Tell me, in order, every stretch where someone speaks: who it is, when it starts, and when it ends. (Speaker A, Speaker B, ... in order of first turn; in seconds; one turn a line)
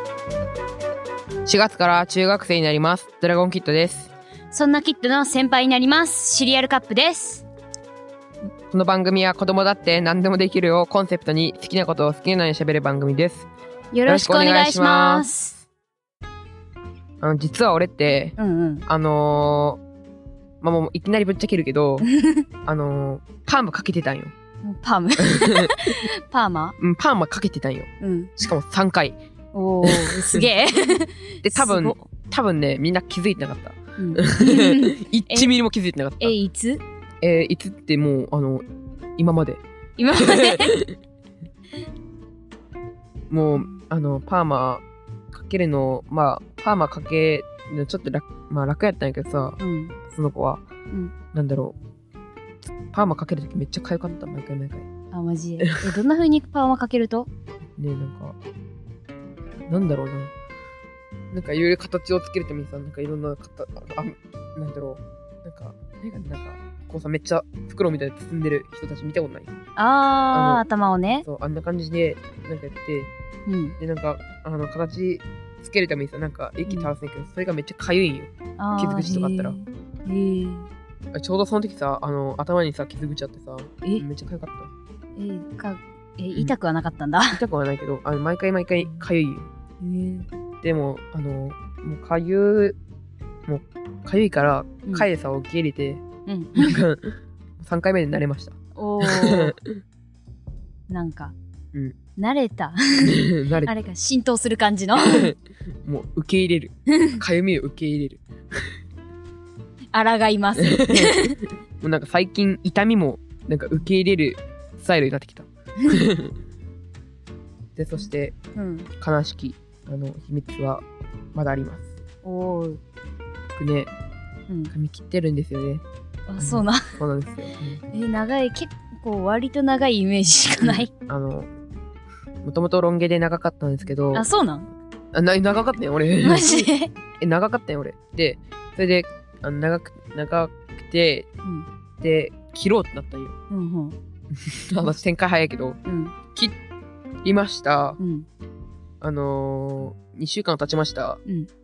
Speaker A: 1.5-4.1
Speaker B: 4.5-7.5
Speaker A: 8.7-13.5
Speaker B: 13.9-15.6
Speaker A: 14.1-15.3
Speaker A: 17.2-18.4
Speaker B: 18.4-18.9
Speaker A: 18.9-19.8
Speaker A: 20.6-22.1
Speaker B: 22.0-22.4
Speaker A: 22.6-24.3
Speaker B: 24.6-26.8
Speaker A: 25.2-25.7
Speaker A: 26.8-29.2
Speaker B: 28.0-28.4
Speaker B: 29.5-32.0
Speaker A: 29.8-30.5
Speaker A: 31.4-36.4
Speaker B: 34.0-35.5
Speaker B: 36.2-36.8
Speaker A: 37.2-38.6
Speaker A: 39.2-39.6
Speaker B: 40.0-40.8
Speaker A: 40.2-40.9
Speaker A: 43.3-50.7
Speaker B: 49.6-50.0
Speaker A: 51.3-51.8
Speaker A: 52.9-54.9
Speaker B: 55.1-57.3
Speaker A: 55.6-55.9
Speaker A: 57.8-58.4
Speaker A: 59.7-60.3
Speaker A: 61.3-69.5
Speaker B: 69.8-71.3
Speaker A: 70.3-70.6
Speaker A: 71.2-73.1
Speaker B: 73.5-73.8
Speaker A: 73.8-79.6
Speaker B: 76.7-76.9
Speaker B: 78.6-80.7
Speaker A: 81.1-84.7
Speaker B: 85.2-87.4
Speaker A: 87.3-89.5
Speaker B: 89.8-90.3
Speaker A: 90.6-92.8
Speaker A: 93.5-96.0
Speaker B: 96.3-96.8
Speaker A: 96.6-99.7
Speaker B: 98.8-99.5
Speaker B: 100.9-101.3
Speaker B: 102.2-105.3
Speaker A: 103.0-103.7
Speaker A: 105.0-108.2
Speaker B: 106.9-107.2
Speaker B: 109.9-111.4
Speaker A: 110.6-116.3
Speaker A: 117.8-118.3
Speaker B: 118.5-118.9
Speaker A: 119.0-121.9
Speaker B: 122.2-122.8
Speaker A: 123.6-123.9
Speaker A: 124.7-125.8
Speaker B: 126.3-126.9
Speaker A: 126.4-127.8
Speaker B: 127.9-130.9
Speaker A: 130.6-131.5
Speaker A: 132.4-134.3
Speaker B: 134.1-134.7
Speaker A: 135.1-141.3
Speaker B: 136.2-136.9
Speaker A: 142.0-143.3
Speaker B: 143.5-144.0
Speaker A: 144.3-145.8
Speaker B: 145.8-146.2
Speaker A: 147.2-148.0
Speaker B: 148.0-148.3
Speaker A: 149.0-151.2